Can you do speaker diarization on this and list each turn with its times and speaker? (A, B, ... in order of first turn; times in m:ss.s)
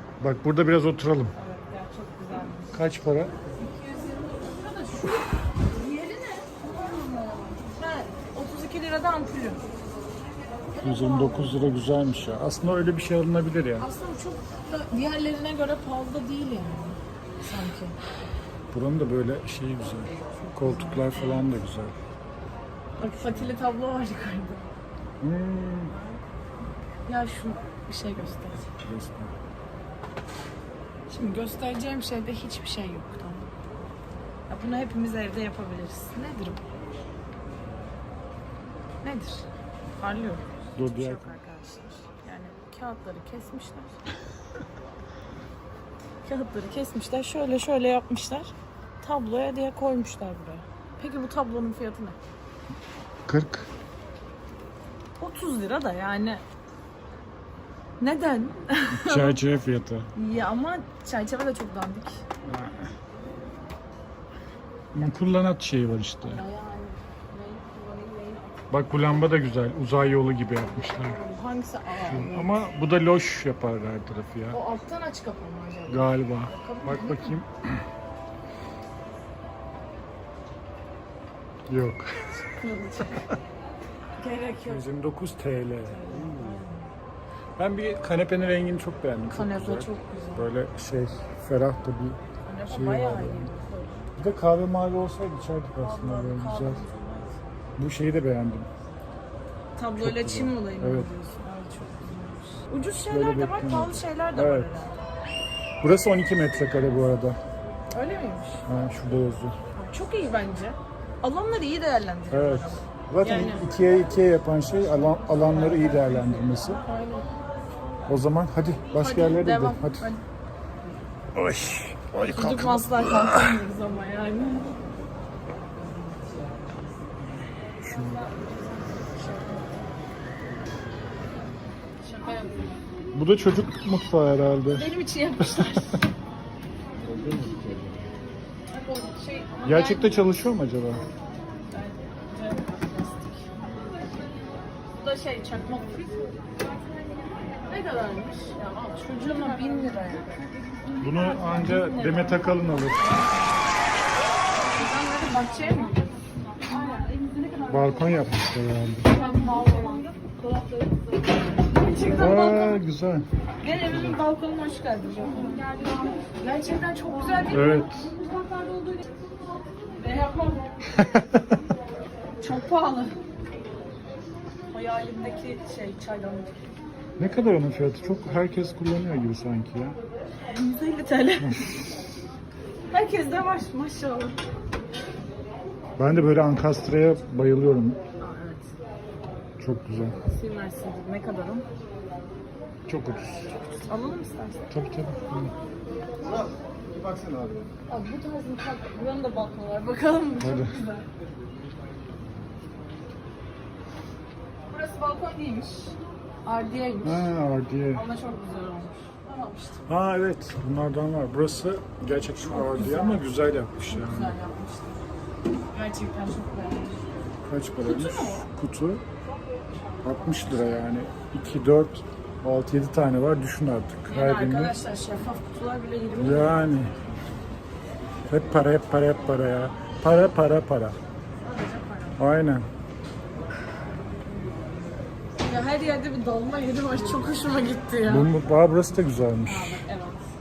0:00.2-0:01.3 A
0:01.3-0:02.8 B
0:02.7-0:03.3 A
0:03.5-0:09.6 B
0:10.7-0:13.9 A
0:10.8-0:11.5 B
0:13.8-0:18.0 B
0:18.7-0:21.9 A
0:20.4-0:21.4 B
0:23.0-0:24.7 B
0:25.2-0:25.9 A
0:25.9-0:26.2 B
0:27.1-0:28.7 B
0:28.8-0:29.3 A
0:31.1-0:33.5 B
0:34.5-0:36.6 B
0:39.0-0:39.4 B
0:40.0-0:44.0 B
0:40.8-0:41.3 A
0:46.2-0:52.2 B
0:53.2-0:53.7 A
0:55.2-0:56.4 B
0:58.0-0:59.4 B
0:58.9-1:00.1 A
1:00.1-1:02.2 B
1:02.4-1:02.9 A
1:04.9-1:06.4 A
1:06.2-1:08.7 B
1:08.7-1:11.2 A
1:10.6-1:12.5 B
1:12.0-1:14.6 A
1:14.5-1:17.4 B
1:15.9-1:17.8 A
1:21.7-1:22.5 A
1:22.5-1:23.3 B
1:24.2-1:24.8 B
1:24.6-1:26.6 A
1:25.9-1:26.9 B
1:27.6-1:32.2 A
1:29.3-1:30.5 B
1:32.4-1:34.1 B
1:32.7-1:33.5 A
1:34.2-1:36.8 A
1:35.8-1:37.3 B
1:37.8-1:38.7 A
1:39.8-1:45.0 B
1:40.0-1:41.1 A
1:42.8-1:44.7 A
1:45.8-1:47.4 A
1:47.9-1:48.6 B
1:48.6-1:49.6 A
1:49.7-1:53.7 B
1:52.3-1:56.8 A
1:56.6-1:57.3 B
1:58.1-2:00.0 A
1:58.9-2:00.2 B
2:01.3-2:03.6 A
2:02.3-2:04.7 B
2:07.8-2:08.2 A
2:08.2-2:09.8 B
2:12.0-2:12.8 B
2:13.1-2:14.9 A
2:14.7-2:16.0 B
2:15.4-2:16.0 A
2:17.1-2:17.9 A
2:18.7-2:20.1 B
2:19.6-2:21.0 A
2:21.7-2:23.5 B
2:25.0-2:26.4 B
2:27.5-2:30.4 B
2:31.0-2:33.1 A
2:31.1-2:33.5 B
2:34.7-2:36.0 B
2:36.6-2:38.0 B
2:37.7-2:39.1 A
2:39.0-2:42.8 B
2:42.1-2:44.2 A
2:43.6-2:49.0 B
2:47.5-2:48.1 A
2:49.9-2:50.7 B
2:50.9-2:51.4 A
2:52.4-2:53.2 B
2:54.7-2:56.8 B
2:57.2-3:00.0 A
3:00.5-3:01.6 B
3:01.4-3:02.0 A
3:02.9-3:04.4 B
3:06.0-3:08.0 A
3:08.2-3:08.7 B
3:09.6-3:10.2 A
3:10.1-3:11.6 B
3:12.9-3:13.8 A
3:13.9-3:14.7 B
3:14.7-3:15.5 A
3:17.0-3:17.7 A
3:17.9-3:21.0 B
3:20.4-3:20.8 A
3:24.7-3:27.3 B
3:27.0-3:28.0 A
3:27.9-3:29.8 B
3:29.9-3:34.3 A
3:32.4-3:33.2 B
3:33.9-3:35.0 B
3:35.7-3:37.0 B
3:37.4-3:39.0 A
3:37.8-3:38.5 B
3:39.9-3:40.6 B
3:40.0-3:44.8 A
3:44.1-3:46.6 B
3:46.2-3:46.9 A
3:48.3-3:51.0 A
3:51.4-3:52.2 B
3:52.2-3:52.7 A
3:55.4-3:58.3 B
3:58.0-3:59.8 A
3:59.4-4:00.3 B